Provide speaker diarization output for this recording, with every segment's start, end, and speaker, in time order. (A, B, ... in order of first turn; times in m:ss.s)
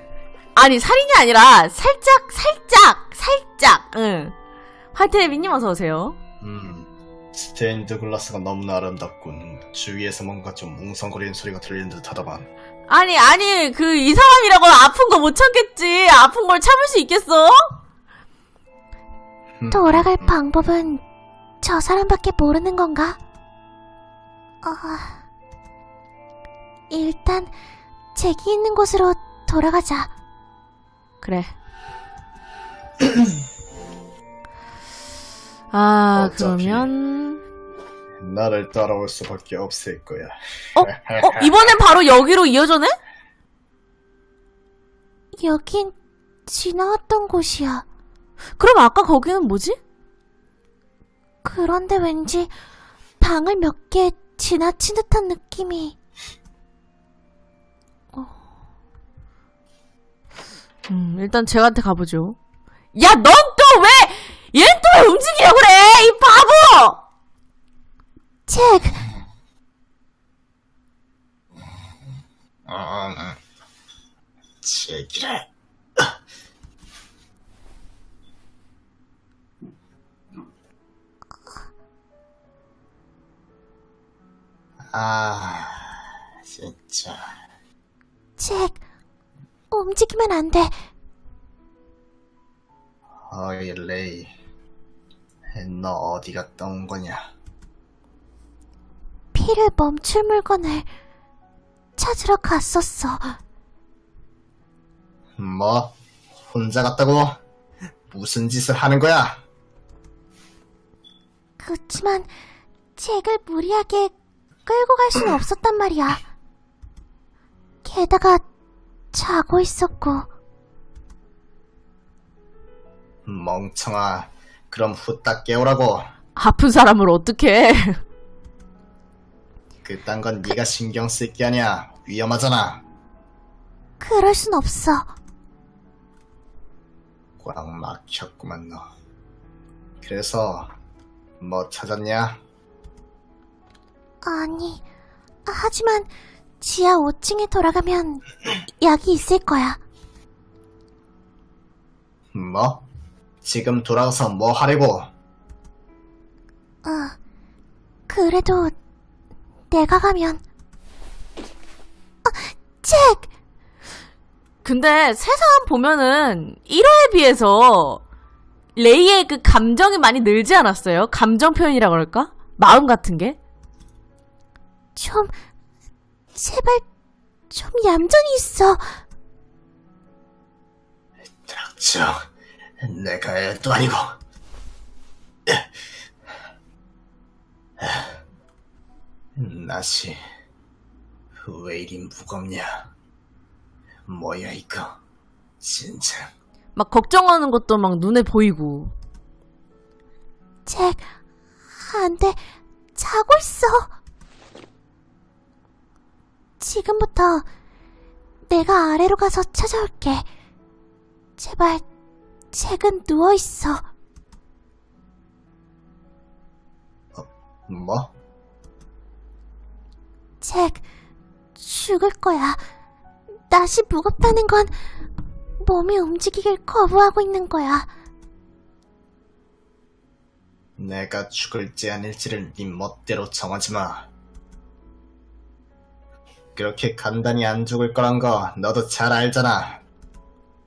0:00.5-0:04.3 A
0:04.9-0:06.2 A
0:06.4-0:12.5 B
0:12.9-0:17.7 A
0:19.6-0:20.4 B
0:19.7-0:21.0 C
0:21.6-0:23.2 C
0:24.6-0:25.2 C
0:26.9-0:27.5 C
0:28.1-0:30.1 C
0:31.2-0:31.5 A
0:33.0-0:33.3 B
0:35.7-0:37.4 A
0:36.1-0:36.9 B
0:38.2-0:41.8 B
0:40.7-0:42.9 A
0:45.4-0:46.0 C
0:46.5-0:47.8 C
0:48.6-0:49.8 A
0:51.4-0:52.5 C
0:53.2-0:56.0 C
1:00.9-1:02.4 A
1:02.9-1:07.0 A
1:08.5-1:09.0 C
1:12.7-1:13.4 B
1:14.6-1:16.2 B
1:24.9-1:27.4 B
1:28.4-1:28.8 C
1:29.7-1:30.7 C
1:33.2-1:34.3 B
1:35.5-1:37.3 B
1:39.3-1:40.9 C
1:42.0-1:43.4 C
1:45.4-1:47.4 B
1:48.1-1:49.4 B
1:51.6-1:52.3 C
1:53.0-1:54.1 C
1:54.6-1:56.2 C
1:57.8-1:58.4 C
1:59.1-2:00.3 C
2:03.2-2:06.1 B
2:06.4-2:08.0 A
2:09.8-2:12.8 B
2:14.0-2:15.1 C
2:17.4-2:18.9 B
2:20.0-2:20.7 B
2:21.4-2:22.4 B
2:24.2-2:24.8 C
2:25.4-2:26.1 C
2:26.6-2:28.2 C
2:28.8-2:29.8 C
2:32.3-2:32.8 B
2:33.4-2:35.1 B
2:36.8-2:37.2 C
2:38.1-2:38.7 C
2:39.7-2:40.4 C
2:42.2-2:43.3 C
2:44.6-2:48.0 A
2:48.8-2:53.4 A
2:55.0-2:55.3 C
2:56.3-2:56.8 C
2:57.5-2:58.9 C
3:01.4-3:02.2 B
3:02.8-3:04.2 B
3:05.4-3:05.7 B
3:07.8-3:08.2 B
3:09.4-3:10.2 B
3:11.4-3:12.9 B
3:14.1-3:15.0 B
3:15.6-3:16.3 B
3:16.8-3:18.9 A
3:20.6-3:21.1 C
3:21.8-3:22.4 C
3:22.9-3:23.9 C
3:26.6-3:27.5 C
3:28.5-3:30.3 C
3:31.4-3:31.8 C
3:32.5-3:33.9 C
3:37.1-3:38.1 B
3:40.4-3:40.8 C
3:41.6-3:42.6 C
3:43.5-3:44.7 C
3:45.6-3:47.9 C
3:50.8-3:54.1 B
3:56.6-3:59.8 B